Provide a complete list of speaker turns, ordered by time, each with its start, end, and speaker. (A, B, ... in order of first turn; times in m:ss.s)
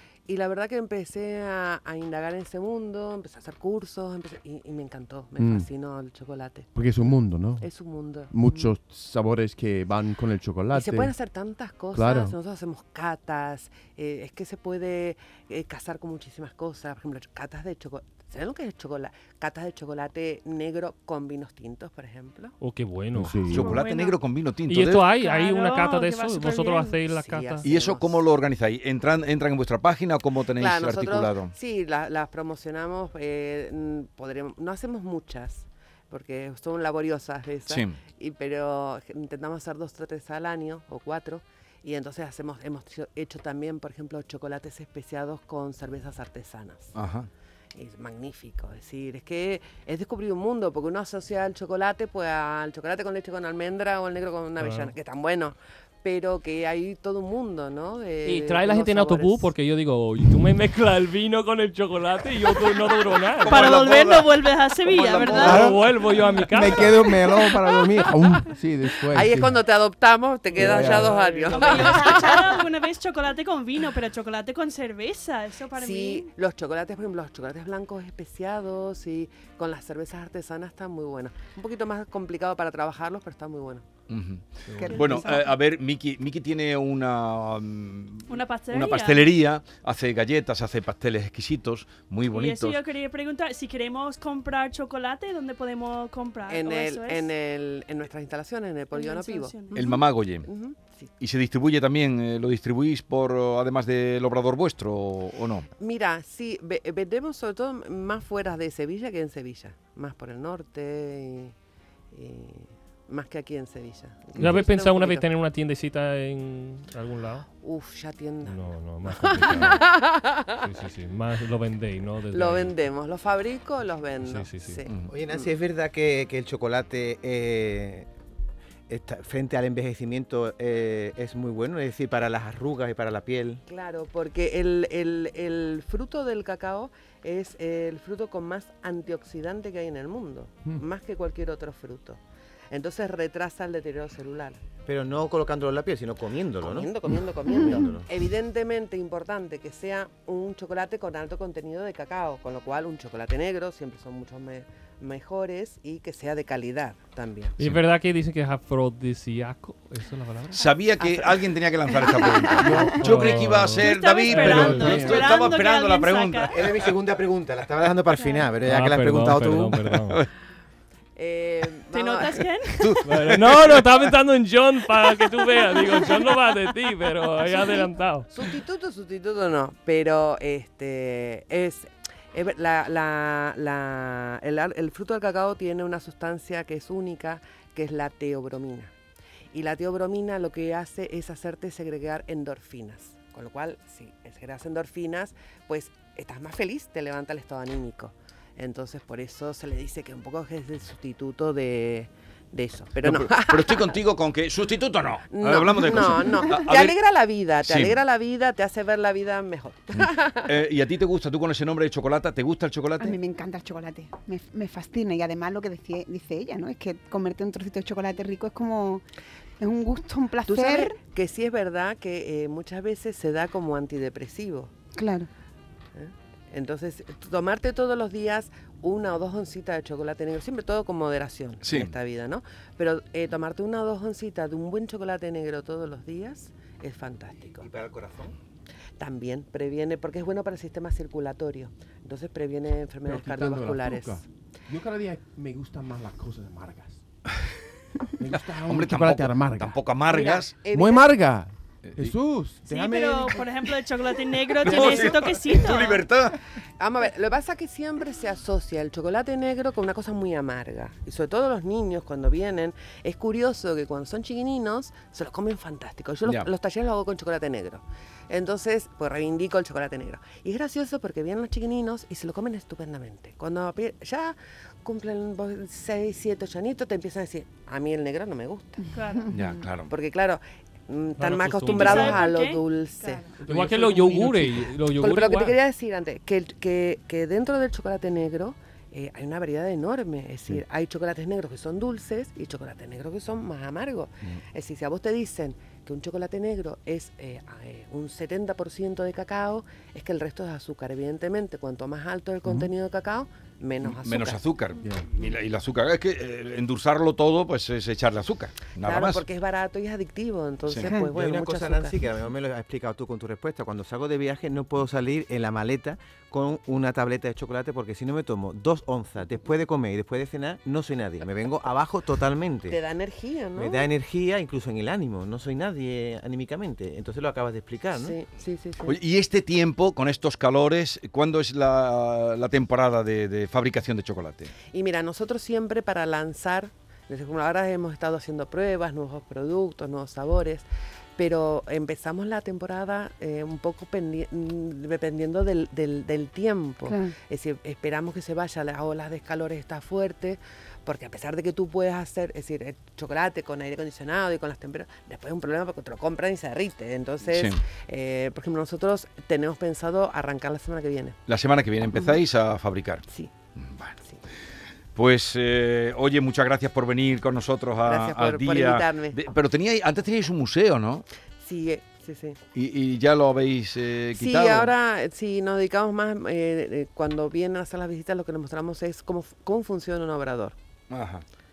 0:00.3-0:06.7 A
0:05.4-0:05.7 B
0:06.7-0:07.7 B
0:07.6-0:08.7 A
0:08.3-0:11.1 B
0:10.7-0:22.5 A
0:11.9-0:12.4 B
0:22.6-0:23.6 C
0:23.1-0:23.8 B
0:23.5-0:25.1 D
0:23.5-0:24.2 E
0:24.7-0:27.6 C
0:25.1-0:27.0 E
0:27.1-0:28.3 A
0:27.6-0:31.5 D
0:30.6-0:46.9 A
0:37.7-0:38.0 D
0:46.9-0:47.3 D
0:47.7-0:59.5 A
0:54.6-0:54.9 C
0:58.2-1:03.6 C
1:03.4-1:05.8 D
1:03.5-1:05.7 E
1:05.3-1:05.7 B
1:05.4-1:06.9 C
1:06.5-1:09.6 B
1:09.1-1:12.6 A
1:10.6-1:11.9 C
1:10.6-1:11.2 B
1:11.5-1:16.3 E
1:15.7-1:23.8 A
1:24.1-1:32.8 D
1:24.8-1:25.3 F
1:24.9-1:25.5 E
1:28.3-1:29.2 E
1:32.3-1:37.3 E
1:36.5-1:39.9 A
1:38.9-1:40.0 E
1:39.7-1:40.5 D
1:40.4-1:41.1 A
1:41.2-1:45.6 D
1:45.8-1:51.5 A
1:52.1-1:55.2 A
1:54.4-1:57.4 C
1:57.6-1:58.6 A
1:58.4-1:59.9 C
1:59.1-2:00.6 A
2:00.5-2:02.8 C
2:02.3-2:05.5 A
2:04.2-2:04.8 C
2:04.9-2:05.1 D
2:05.1-2:08.1 G
2:08.9-2:13.6 G
2:13.7-2:22.2 A
2:22.7-2:24.6 A
2:24.9-2:28.1 G
2:26.6-2:37.6 A
2:37.6-2:40.6 C
2:40.5-2:46.7 D
2:42.6-2:45.3 C
2:42.6-2:43.0 B
2:43.8-2:46.6 E
2:46.5-2:49.8 G
2:48.6-2:50.2 C
2:51.2-2:52.4 A
2:51.9-2:53.0 E
2:52.8-2:53.9 D
2:53.0-2:58.3 C
2:57.4-2:57.9 E
2:58.3-3:08.9 A
3:09.5-3:23.9 A
3:23.0-3:27.0 D
3:25.3-3:30.5 A
3:27.6-3:28.0 D
3:29.9-3:33.2 D
3:33.0-3:39.0 F
3:39.6-3:41.0 F
3:40.4-3:44.7 A
3:44.9-3:45.3 F
3:45.9-3:57.7 A
3:51.6-3:51.9 D
3:57.6-3:58.3 G
3:59.0-4:04.2 A
4:03.0-4:07.0 B
4:08.2-4:09.8 B
4:08.3-4:10.6 D
4:10.1-4:11.1 A
4:10.6-4:13.4 B
4:11.9-4:12.1 D
4:12.7-4:16.0 E
4:14.6-4:16.4 D
4:16.8-4:38.8 A
4:26.2-4:26.5 D
4:38.9-4:39.3 E
4:39.3-4:39.9 D
4:39.9-4:43.2 A
4:41.2-4:42.2 C
4:41.6-4:43.2 E
4:43.4-4:44.6 B
4:43.5-4:45.6 C
4:44.9-5:04.4 A
5:02.4-5:02.7 B
5:03.8-5:09.2 D
5:08.8-5:12.1 A
5:10.7-5:10.9 D
5:11.0-5:22.8 G
5:22.7-5:23.9 A
5:23.5-5:28.2 G
5:27.9-5:29.0 A
5:28.8-5:34.5 D
5:34.7-6:01.2 A
5:46.9-5:47.1 F
5:57.2-5:57.6 D
6:01.3-6:03.0 D
6:03.6-6:03.9 D
6:04.9-6:11.0 D
6:07.8-6:09.2 A
6:11.4-6:12.4 A
6:12.5-6:14.7 D
6:14.1-6:20.6 A
6:20.9-6:21.2 D